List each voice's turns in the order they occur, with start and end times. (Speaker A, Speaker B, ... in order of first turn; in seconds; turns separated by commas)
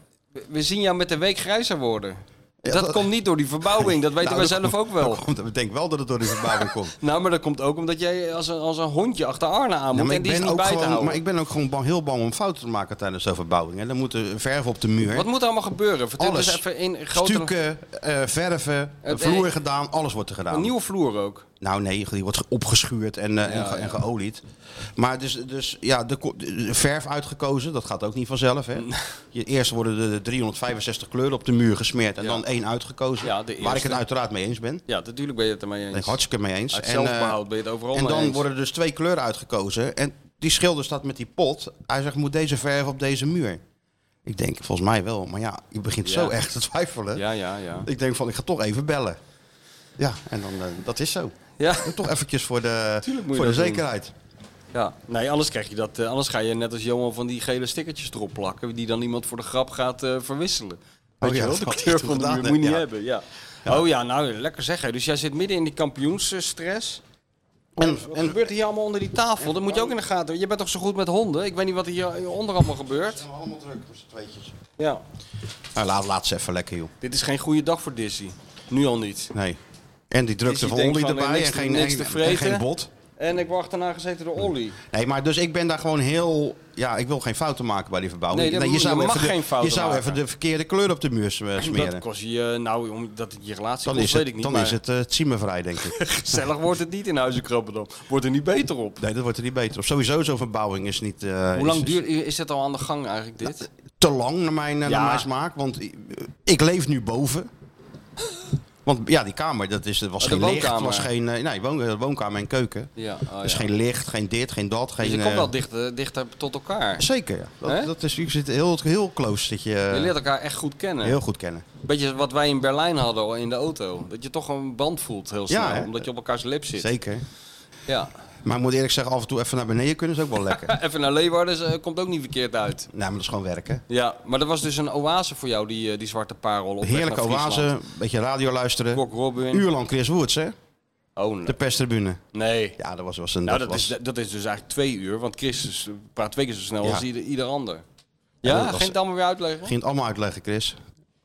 Speaker A: 0.3-5.2, Speaker B: 2.6-3.1, Speaker B: 3.6-7.0, Speaker A: 7.0-11.2, Speaker B: 9.9-15.3, Speaker A: 15.1-17.5, Speaker B: 16.2-20.7, Speaker A: 19.0-19.5, Speaker A: 20.5-21.4, Speaker B: 21.6-24.4, Speaker A: 23.4-24.0, Speaker B: 24.9-34.8, Speaker A: 28.8-29.0, Speaker A: 33.2-34.0, Speaker A: 34.9-36.2, Speaker B: 35.9-37.4, Speaker A: 36.7-38.4, Speaker B: 37.9-43.6, Speaker B: 44.2-47.2, Speaker A: 46.0-46.3, Speaker A: 47.1-47.9, Speaker B: 47.8-49.2, Speaker B: 50.0-54.1, Speaker A: 51.6-52.0, Speaker A: 53.0-53.8, Speaker A: 54.7-67.0, Speaker B: 61.2-62.9, Speaker B: 67.8-68.4, Speaker A: 67.8-73.2, Speaker B: 69.4-69.9, Speaker B: 73.0-74.5, Speaker B: 75.7-76.9, Speaker A: 77.0-79.3, Speaker B: 79.3-79.6, Speaker B: 80.1-82.9, Speaker A: 80.5-82.6, Speaker A: 83.2-84.8, Speaker B: 84.9-92.0, Speaker A: 88.3-90.2, Speaker A: 91.6-94.8, Speaker B: 93.8-96.4, Speaker A: 95.8-99.0, Speaker B: 99.0-102.0, Speaker A: 101.5-103.7, Speaker B: 103.5-107.5, Speaker A: 104.8-105.3, Speaker B: 108.8-112.9, Speaker A: 110.2-111.1, Speaker A: 113.0-113.7, Speaker B: 113.4-115.5, Speaker A: 115.0-117.0, Speaker B: 117.0-120.1, Speaker A: 117.6-117.9, Speaker A: 119.9-121.2, Speaker B: 121.0-121.7, Speaker A: 121.8-126.9, Speaker B: 125.5-126.0, Speaker B: 126.8-127.2, Speaker B: 128.4-130.7, Speaker A: 130.6-132.9, Speaker B: 132.9-133.8, Speaker A: 133.9-137.7, Speaker B: 136.8-140.5, Speaker A: 138.9-139.7, Speaker A: 141.2-141.6, Speaker B: 141.4-142.2, Speaker A: 142.3-142.8, Speaker B: 142.8-143.9, Speaker A: 143.4-147.8, Speaker A: 148.4-149.7, Speaker B: 148.4-149.0, Speaker B: 149.6-150.8